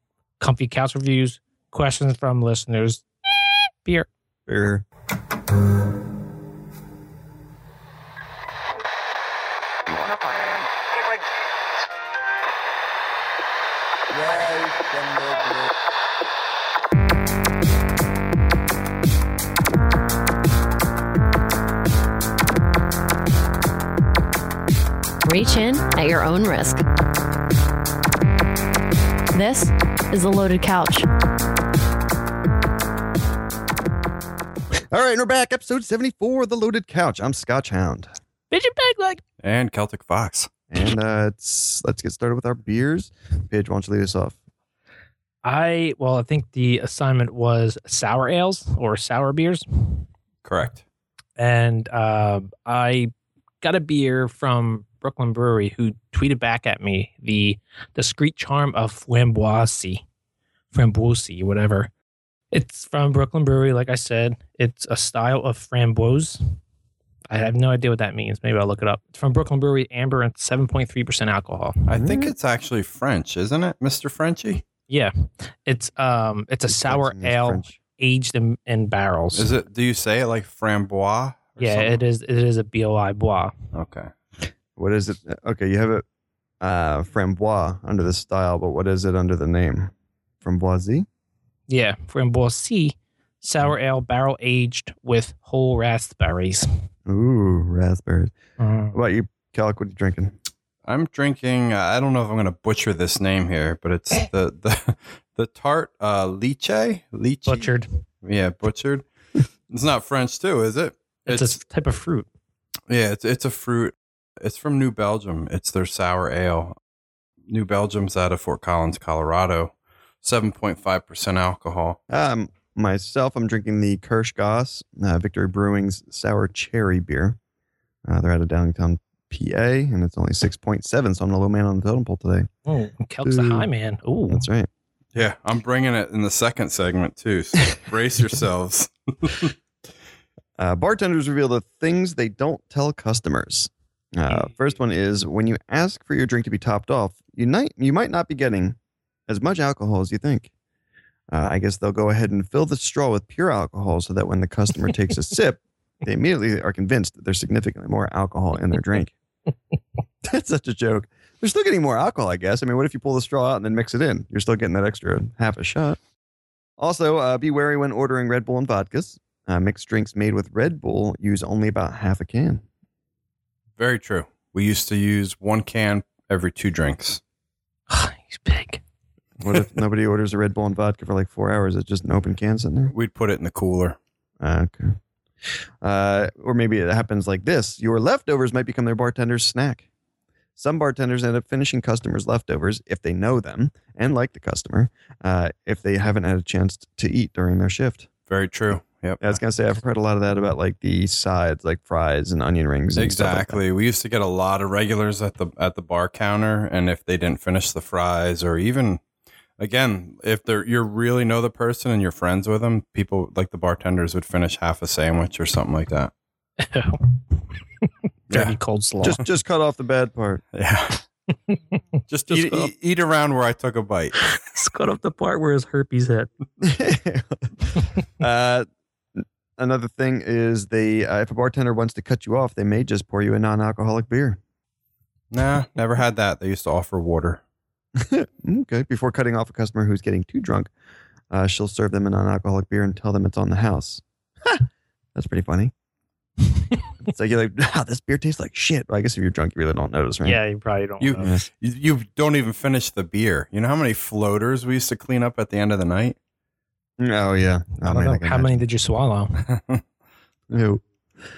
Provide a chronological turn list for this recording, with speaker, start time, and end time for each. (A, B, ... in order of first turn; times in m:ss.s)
0:00.4-0:03.0 A
0:03.8-0:04.1 A
0:04.5-0:04.8 B
0:25.2-0:26.8 C
0:29.3-0:31.1 C
0:34.8-0:38.1 B
0:38.5-0:39.2 A
0:39.4-0:40.5 D
0:40.7-0:44.4 B
0:45.4-0:50.1 A
0:50.4-0:50.8 D
0:51.4-1:00.0 A
1:00.7-1:01.9 A
1:02.5-1:06.4 A
1:07.3-1:11.8 A
1:11.9-1:14.6 D
1:12.0-1:12.3 B
1:14.9-1:19.6 A
1:16.7-1:17.8 B
1:19.3-1:22.0 D
1:21.6-1:23.5 A
1:23.7-1:24.1 D
1:24.8-1:26.0 B
1:26.6-1:29.9 B
1:30.4-1:31.1 B
1:31.7-1:36.7 A
1:37.1-1:38.3 B
1:38.6-1:39.0 A
1:38.9-1:40.4 B
1:40.9-1:47.7 D
1:47.5-1:47.9 A
1:48.2-1:49.0 D
1:49.7-1:51.6 D
1:51.3-1:52.3 A
1:52.9-1:56.8 D
1:57.5-2:02.0 D
2:02.1-2:07.4 B
2:08.1-2:12.5 B
2:12.7-2:14.4 A
2:13.2-2:13.7 B
2:14.3-2:14.7 B
2:15.2-2:19.5 D
2:20.6-2:28.8 B
2:29.3-2:30.5 B
2:31.3-2:39.2 B
2:40.2-2:46.0 B
2:46.8-2:52.6 B
2:53.8-2:57.2 D
2:57.9-2:58.8 A
2:59.4-3:02.9 B
3:02.9-3:04.0 D
3:04.4-3:05.0 B
3:05.8-3:09.8 B
3:10.6-3:18.1 B
3:18.3-3:19.4 D
3:19.2-3:23.6 B
3:23.0-3:29.0 D
3:29.6-3:36.1 D
3:36.6-3:39.2 A
3:38.3-3:38.6 D
3:39.0-3:40.4 B
3:40.5-3:41.0 D
3:41.5-3:41.8 A
3:42.1-3:44.2 D
3:42.3-3:42.7 A
3:44.2-3:46.3 A
3:46.6-3:54.4 B
3:55.3-3:57.4 D
3:58.0-4:00.7 B
4:01.3-4:05.7 B
4:07.0-4:10.4 B
4:10.2-4:11.4 A
4:11.0-4:16.2 D
4:17.0-4:18.6 B
4:17.8-4:19.4 A
4:19.4-4:19.8 D
4:20.5-4:20.8 B